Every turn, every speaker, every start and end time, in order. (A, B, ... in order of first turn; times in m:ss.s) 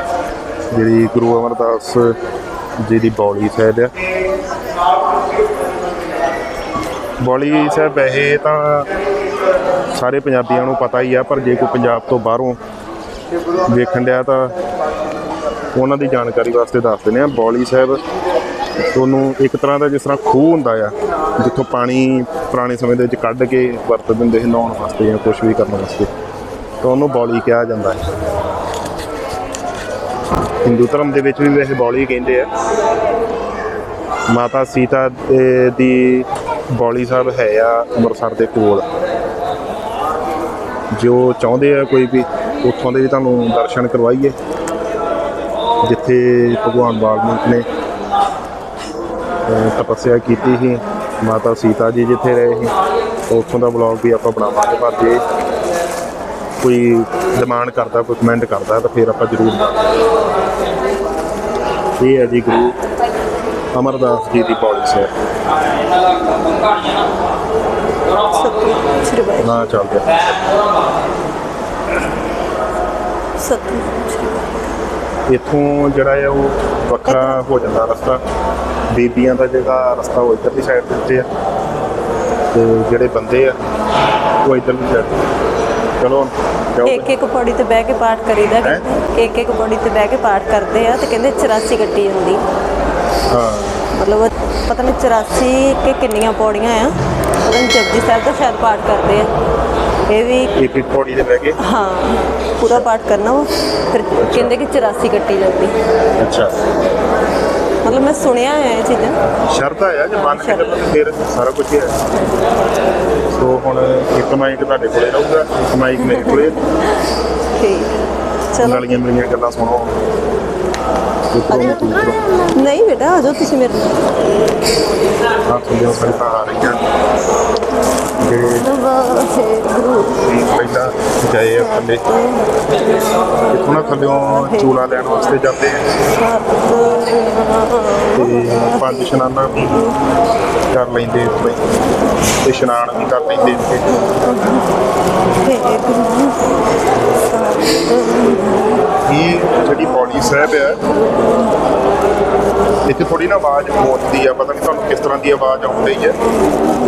0:00.7-0:02.1 A
0:02.8-0:03.9 A
0:07.2-0:08.9 A
0:09.9-0:12.6 A
0:13.7-0:14.5 A
0:15.7-0:18.0 A
0:18.9-0:26.1 A
0:26.8-0:28.0 A
0:30.6-0:32.5 A
0:34.3-0:38.9 A
0:40.9-0:44.3 A
0:45.8-0:47.6 A
0:49.4-0:52.7 A
0:53.3-0:55.2 A
0:56.6-0:59.6 A
1:02.0-1:02.7 A
1:03.7-1:05.1 A
1:08.3-1:09.5 B
1:09.4-1:10.2 A
1:13.4-1:14.5 B
1:15.3-1:18.2 A
1:17.1-1:17.4 B
1:18.9-1:21.3 A
1:22.5-1:23.6 A
1:24.4-1:25.2 A
1:26.0-1:27.1 A
1:26.8-1:32.4 B
1:33.3-1:33.8 A
1:34.0-1:39.3 B
1:40.1-1:40.5 B
1:40.6-1:41.6 A
1:41.6-1:45.7 B
1:44.2-1:44.5 A
1:46.2-1:46.6 A
1:47.8-1:49.2 B
1:49.4-1:52.0 A
1:50.1-1:50.7 B
1:53.3-1:56.6 A
1:57.6-1:57.9 B
1:58.5-1:58.8 B
1:58.6-2:00.0 A
2:01.3-2:02.2 A
2:02.5-2:04.0 B
2:05.5-2:06.8 A
2:08.2-2:08.6 A
2:08.7-2:10.2 B
2:10.2-2:12.0 A
2:13.5-2:15.8 A
2:16.2-2:18.3 B
2:18.2-2:19.8 A
2:20.7-2:21.6 A
2:22.4-2:23.9 A
2:25.4-2:26.4 B
2:29.1-2:30.8 A
2:32.8-2:36.2 A